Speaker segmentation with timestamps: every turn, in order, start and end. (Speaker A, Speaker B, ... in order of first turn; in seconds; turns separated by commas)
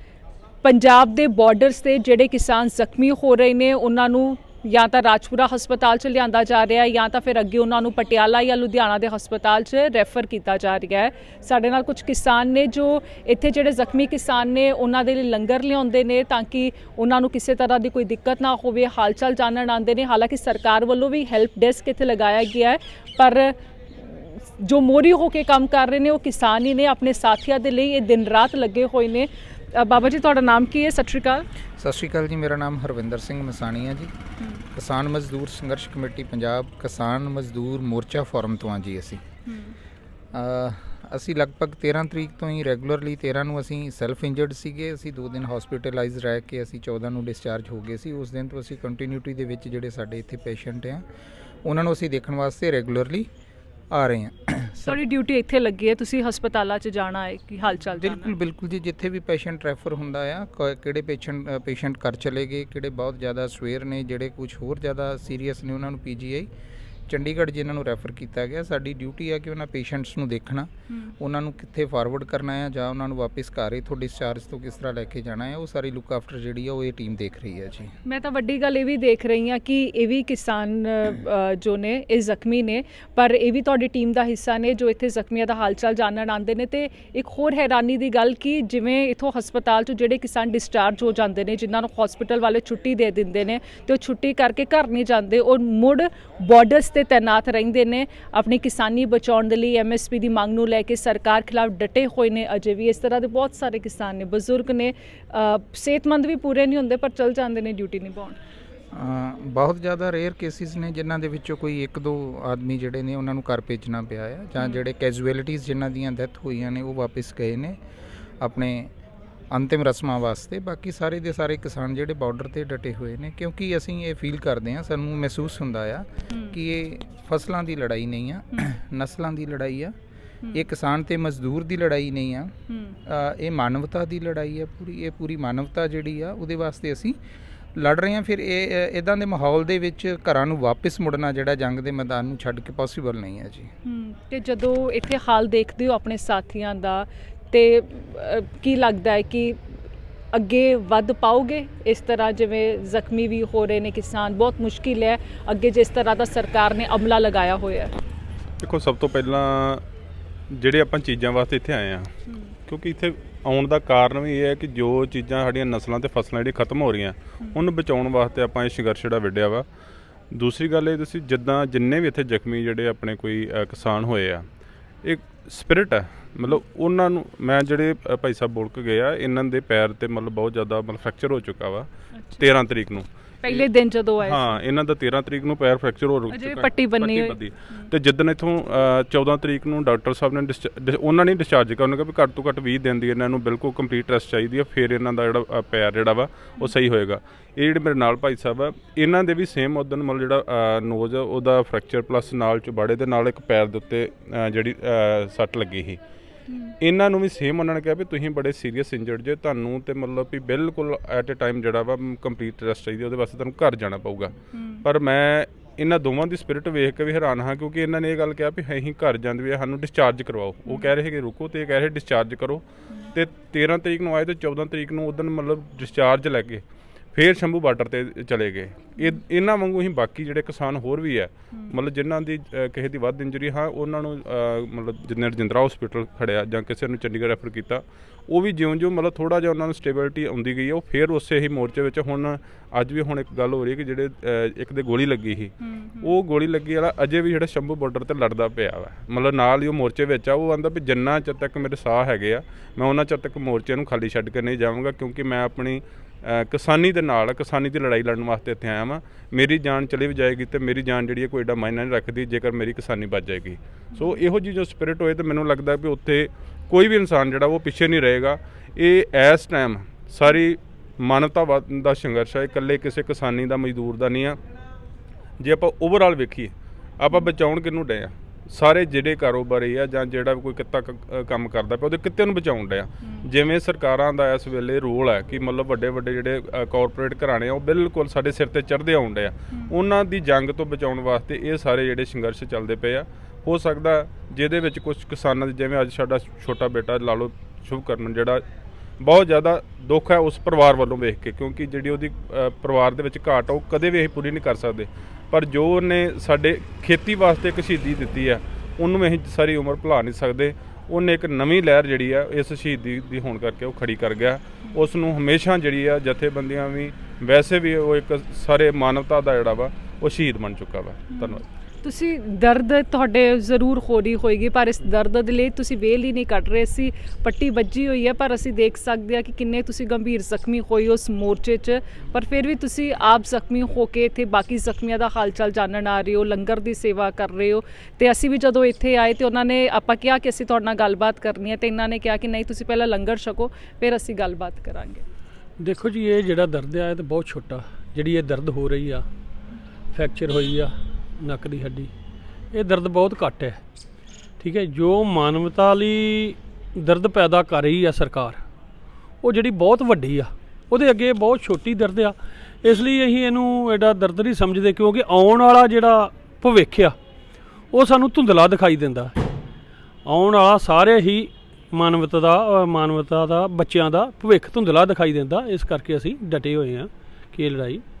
Speaker A: 0.6-31.4, Speaker B: 31.8-34.1, Speaker B: 34.7-39.2, Speaker A: 39.5-39.7, Speaker B: 40.3-51.0, Speaker B: 51.6-53.3, Speaker B: 53.9-55.0, Speaker A: 54.9-58.3, Speaker B: 57.9-66.5, Speaker B: 67.1-77.9, Speaker A: 78.0-108.4, Speaker B: 108.9-117.8, Speaker B: 118.4-118.9, Speaker B: 119.5-129.9, Speaker A: 126.3-126.5, Speaker B: 130.5-132.5, Speaker A: 132.7-133.0, Speaker B: 133.1-137.2, Speaker B: 137.8-143.7, Speaker A: 143.8-149.6, Speaker A: 150.3-157.9, Speaker C: 158.6-159.8, Speaker C: 160.5-162.1, Speaker A: 162.3-162.5, Speaker C: 162.7-169.7, Speaker C: 170.3-174.4, Speaker C: 175.0-183.7, Speaker A: 182.1-182.4, Speaker A: 183.4-184.6, Speaker C: 184.2-206.0, Speaker A: 186.3-187.9, Speaker A: 206.5-206.7, Speaker C: 206.8-222.6, Speaker A: 214.5-214.8, Speaker A: 220.7-220.9, Speaker C: 223.1-226.6, Speaker C: 227.1-274.4, Speaker A: 245.6-246.1, Speaker A: 263.9-264.2, Speaker C: 275.4-298.4, Speaker C: 299.0-321.4, Speaker A: 321.1-345.0, Speaker D: 345.6-349.1, Speaker D: 349.9-351.9, Speaker D: 352.5-353.6, Speaker D: 354.4-358.4, Speaker D: 359.2-366.9, Speaker D: 367.7-369.2, Speaker D: 370.1-377.8